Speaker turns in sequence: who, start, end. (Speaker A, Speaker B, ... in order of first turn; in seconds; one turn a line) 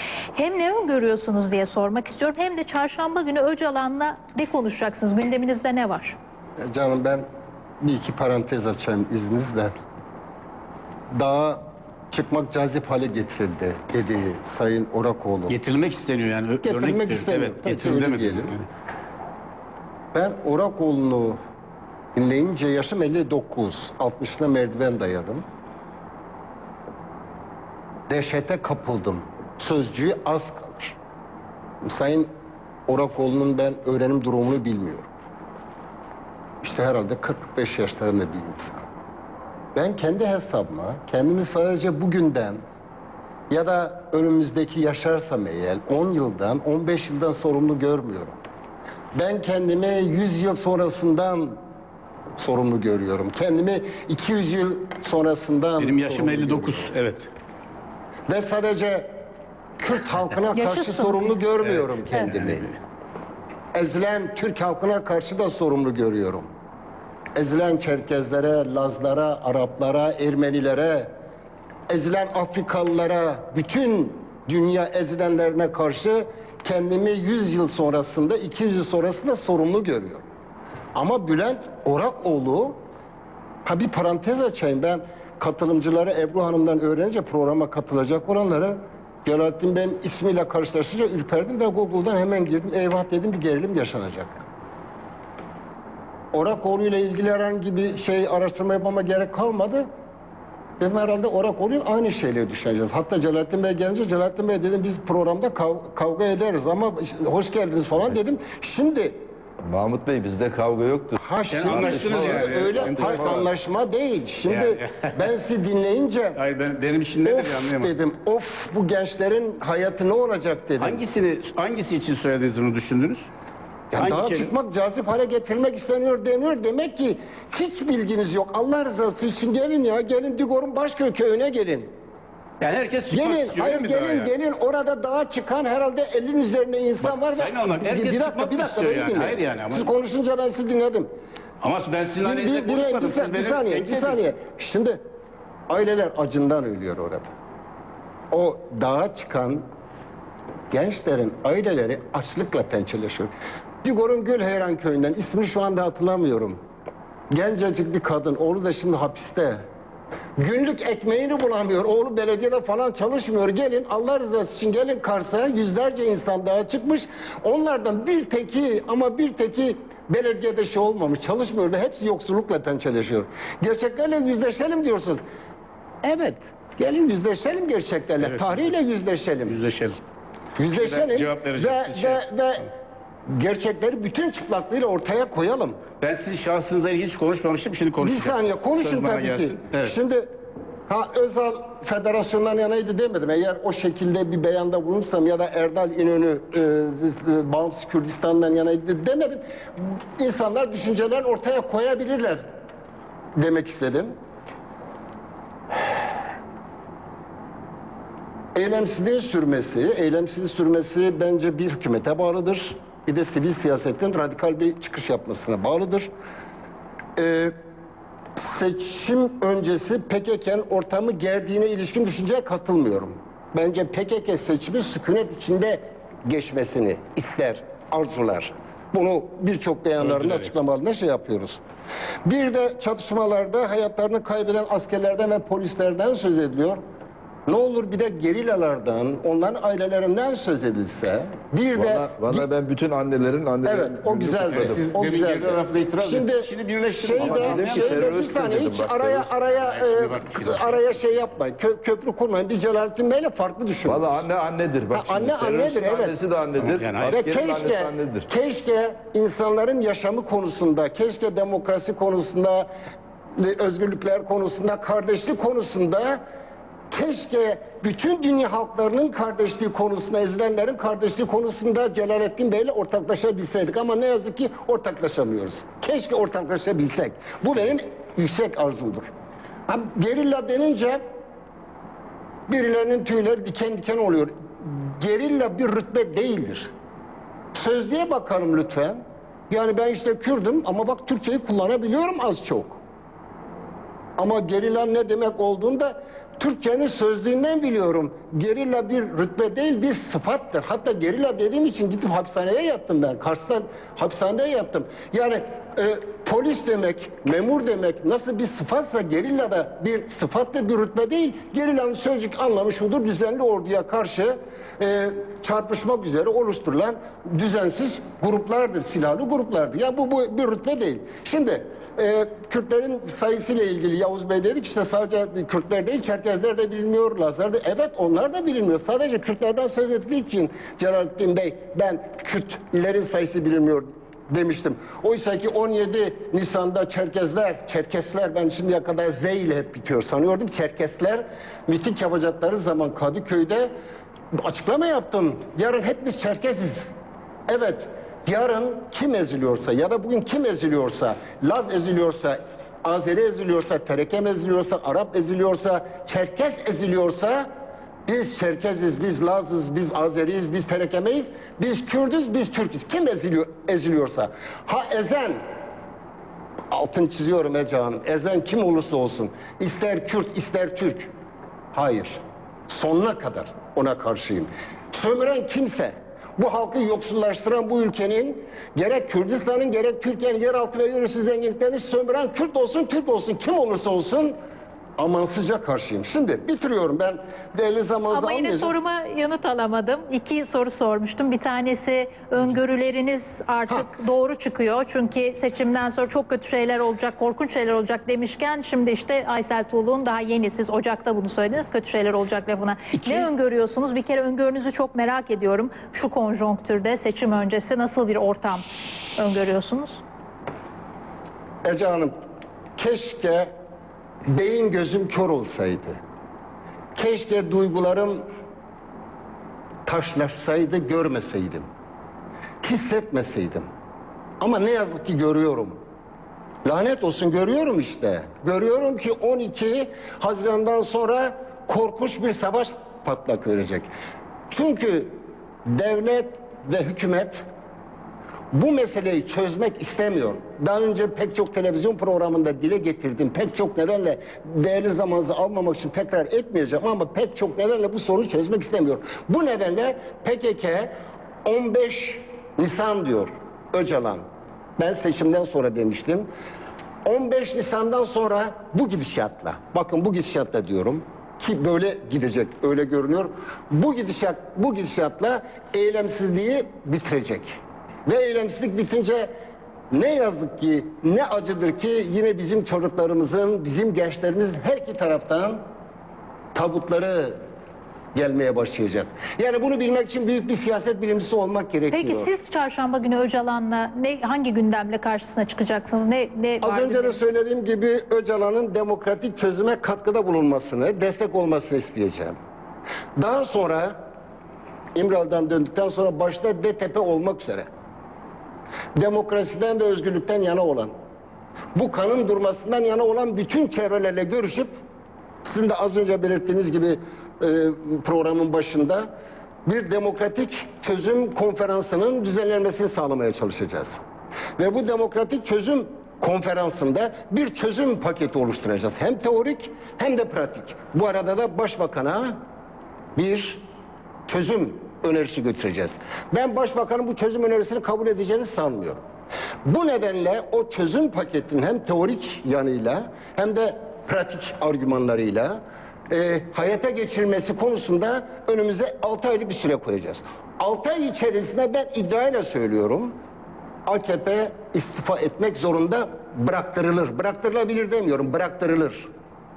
Speaker A: 0.3-6.2
Speaker B: 6.6-7.2
Speaker B: 7.8-9.7
Speaker B: 11.1-15.6
Speaker C: 15.5-18.7
Speaker B: 16.6-18.6
Speaker B: 20.1-21.4
Speaker B: 22.1-25.4
Speaker B: 28.1-31.0
Speaker B: 31.9-32.3
Speaker B: 32.9-35.1
Speaker B: 36.6-38.8
Speaker B: 39.7-42.6
Speaker B: 43.5-48.4
Speaker B: 49.1-51.6
Speaker B: 52.4-56.9
Speaker C: 55.8-57.3
Speaker B: 58.3-59.1
Speaker B: 59.8-62.7
Speaker A: 60.5-61.4
Speaker C: 61.6-62.7
Speaker B: 63.7-66.5
Speaker B: 67.3-71.1
Speaker B: 71.9-80.2
Speaker B: 80.9-82.8
Speaker B: 83.6-94.4
Speaker B: 96.3-99.8
Speaker B: 100.8-109.2
Speaker D: 109.6-113.5
Speaker B: 111.2-116.4
Speaker C: 111.5-113.4
Speaker C: 114.5-115.3
Speaker C: 116.3-117.9
Speaker B: 117.2-121.0
Speaker C: 120.8-123.3
Speaker B: 123.9-131.9
Speaker C: 124.0-124.5
Speaker C: 132.6-134.3
Speaker B: 133.1-141.1
Speaker C: 137.0-139.9
Speaker C: 141.6-144.2
Speaker B: 142.2-145.0
Speaker B: 145.7-147.3
Speaker B: 148.3-149.6
Speaker B: 150.7-153.3
Speaker B: 153.8-156.6
Speaker B: 157.3-159.6
Speaker B: 160.4-175.2
Speaker B: 176.0-179.6
Speaker C: 178.2-178.7
Speaker C: 179.4-180.0
Speaker B: 180.6-182.7
Speaker C: 180.7-182.2
Speaker B: 183.3-185.8
Speaker C: 186.0-190.0
Speaker B: 188.0-190.3
Speaker B: 190.9-202.4
Speaker B: 203.3-204.1
Speaker B: 208.5-216.1
Speaker B: 217.2-217.5
Speaker B: 218.3-231.6
Speaker C: 230.0-230.4
Speaker B: 232.2-236.8
Speaker B: 237.5-242.5
Speaker D: 241.7-244.8
Speaker B: 243.6-254.2
Speaker C: 244.4-248.2
Speaker D: 247.2-249.3
Speaker C: 249.3-251.3
Speaker D: 253.8-258.3
Speaker B: 254.9-256.1
Speaker C: 255.4-257.1
Speaker B: 257.1-262.7
Speaker B: 263.4-266.2
Speaker B: 266.9-279.1
Speaker B: 279.7-281.0
Speaker B: 282.5-286.7
Speaker B: 287.5-292.8
Speaker B: 294.2-343.7
Speaker B: 344.4-346.8
Speaker B: 347.5-357.5
Speaker B: 358.1-365.4
Speaker B: 366.7-371.1
Speaker B: 371.7-372.2
Speaker B: 372.7-384.4
Speaker B: 385.0-388.7
Speaker A: 388.1-410.0
Speaker B: 403.0-403.3
Speaker B: 411.6-412.1
Speaker B: 412.8-413.5
Speaker B: 414.3-416.0
Speaker B: 416.9-418.2
Speaker B: 419.9-421.6
Speaker B: 422.6-423.6
Speaker B: 424.4-425.8
Speaker B: 426.6-433.9
Speaker B: 434.5-435.1
Speaker B: 435.7-437.4
Speaker B: 438.5-450.9
Speaker B: 451.4-454.2
Speaker B: 454.8-456.3
Speaker B: 457.0-467.5
Speaker B: 468.1-469.3
Speaker B: 469.9-475.6
Speaker B: 476.5-477.4
Speaker B: 478.1-482.3
Speaker A: 481.9-487.2
Speaker B: 486.6-492.3
Speaker B: 493.2-493.9
Speaker B: 494.9-497.7
Speaker B: 498.9-500.9
Speaker B: 501.7-504.7
Speaker B: 505.4-509.0
Speaker B: 509.6-514.0
Speaker B: 514.6-522.4
Speaker B: 523.1-523.6
Speaker B: 524.3-529.0
Speaker B: 529.6-543.1
Speaker B: 543.9-549.1